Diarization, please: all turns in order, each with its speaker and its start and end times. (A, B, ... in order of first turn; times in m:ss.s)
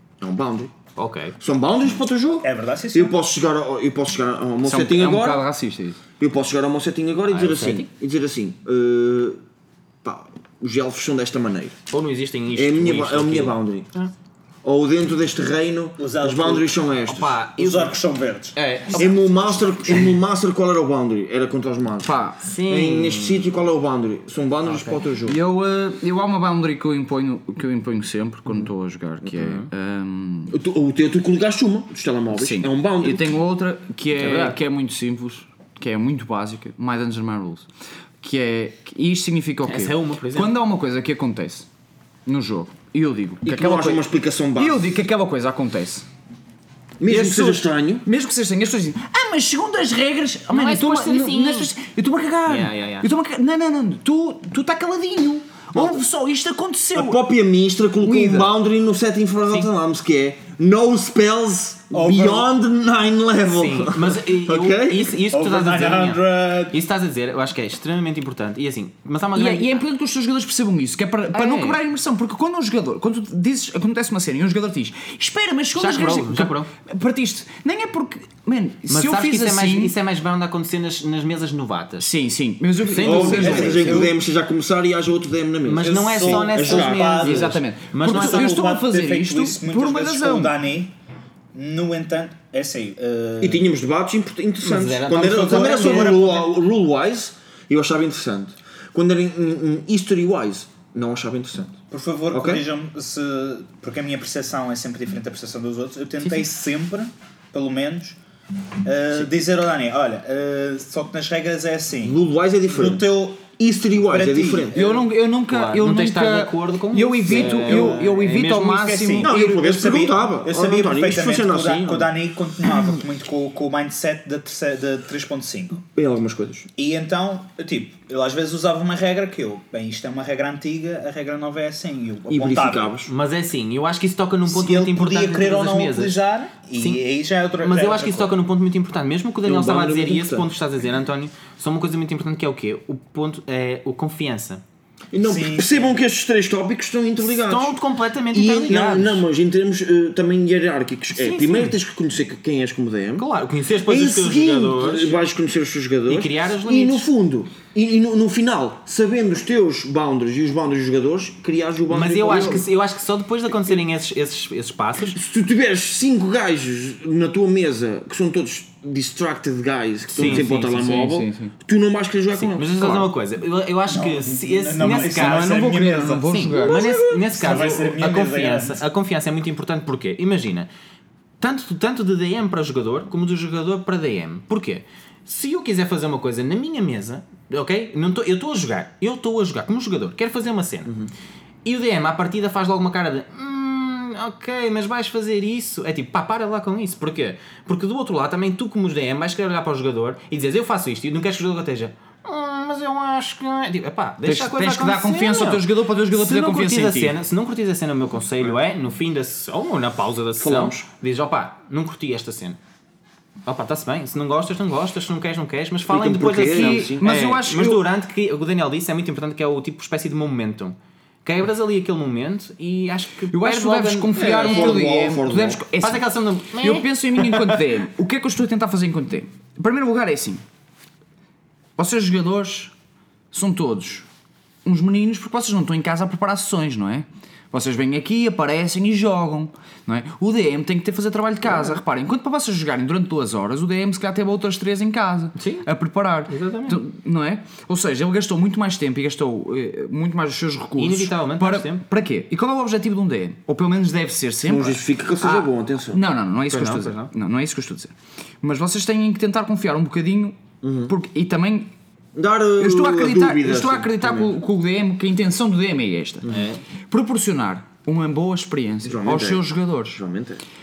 0:00.2-0:00.7 A
0:01.0-0:01.3 B
0:01.4-0:05.4 A
0:02.4-0:03.1 C
0:04.6-0:06.0 D
0:06.2-0:09.4 A
0:07.3-0:07.9 B
0:10.0-0:11.8 A
0:11.9-0:14.1 B
0:12.5-0:13.9 A
0:14.6-0:17.4 A
0:16.0-0:16.8 C
0:17.0-0:18.0 B
0:17.5-0:19.0 C
0:18.5-0:20.1 B
0:18.9-0:22.1 A
0:22.0-0:22.4 D
0:22.4-0:23.5 B
0:22.6-0:25.4 A
0:24.6-0:25.0 B
0:25.2-0:30.5 D
0:29.3-0:29.7 B
0:30.5-0:33.3 A
0:32.3-0:37.7 D
0:34.1-0:34.6 B
0:38.2-0:41.7 D
0:39.6-0:40.5 B
0:42.2-0:44.0 D
0:43.4-0:44.8 A
0:44.6-0:46.0 D
0:47.0-0:48.0 A
0:47.0-0:57.2 D
0:50.5-0:51.7 B
0:52.5-0:53.1 B
0:56.9-1:05.2 A
0:58.0-0:58.5 D
1:01.9-1:02.5 C
1:03.5-1:09.8 B
1:05.3-1:06.8 C
1:09.3-1:19.9 D
1:11.3-1:11.8 B
1:15.8-1:16.7 B
1:18.9-1:22.1 B
1:22.0-1:24.1 D
1:22.8-1:24.0 B
1:23.0-1:27.2 A
1:23.1-1:24.1 C
1:25.6-1:28.6 B
1:25.8-1:30.9 C
1:27.2-1:30.5 D
1:31.5-1:33.6 C
1:33.4-1:41.8 A
1:34.6-1:36.3 B
1:35.2-1:36.5 C
1:41.9-1:48.2 C
1:42.3-1:42.6 A
1:48.8-1:53.4 C
1:52.0-1:54.8 A
1:54.1-1:54.8 C
1:54.7-1:59.6 D
1:54.8-1:58.9 B
1:57.4-1:58.0 A
1:57.7-1:58.0 C
1:58.7-2:05.8 C
1:59.2-2:02.1 A
2:05.8-2:06.7 A
2:06.8-2:13.0 C
2:12.3-2:13.1 A
2:13.0-2:16.2 B
2:14.5-2:18.3 C
2:16.7-2:17.0 B
2:17.6-2:24.6 B
2:19.4-2:20.5 A
2:25.1-2:27.8 A
2:25.2-2:26.0 C
2:27.2-2:29.2 B
2:28.3-2:33.3 A
2:31.1-2:31.7 B
2:33.2-2:35.2 B
2:33.8-2:42.7 A
2:36.1-2:37.1 B
2:41.9-2:45.2 B
2:45.1-2:53.0 A
2:50.1-2:50.9 B
2:50.2-2:51.5 D
2:52.3-3:00.7 B
2:53.9-2:56.3 C
2:54.8-2:56.9 D
2:56.7-2:57.2 A
2:57.3-2:58.8 C
3:01.4-3:10.9 B
3:11.6-3:32.6 B
3:24.2-3:27.1 D
3:30.4-3:30.9 A
3:33.4-3:44.8 B
3:35.9-3:37.1 A
3:36.4-3:37.8 D
3:43.3-3:46.0 D
3:44.1-3:45.6 A
3:45.8-3:47.6 B
3:46.6-3:50.4 D
3:51.8-3:52.7 D
3:53.3-3:54.1 D
3:54.6-4:21.7 D
4:05.4-4:05.7 B
4:06.3-4:06.8 B
4:10.8-4:11.8 B
4:14.4-4:16.0 A
4:16.5-4:17.1 B
4:20.6-4:20.9 A
4:22.1-4:24.3 A
4:22.6-4:26.3 D
4:26.3-4:26.6 B
4:26.9-4:30.0 D
4:28.8-4:30.4 A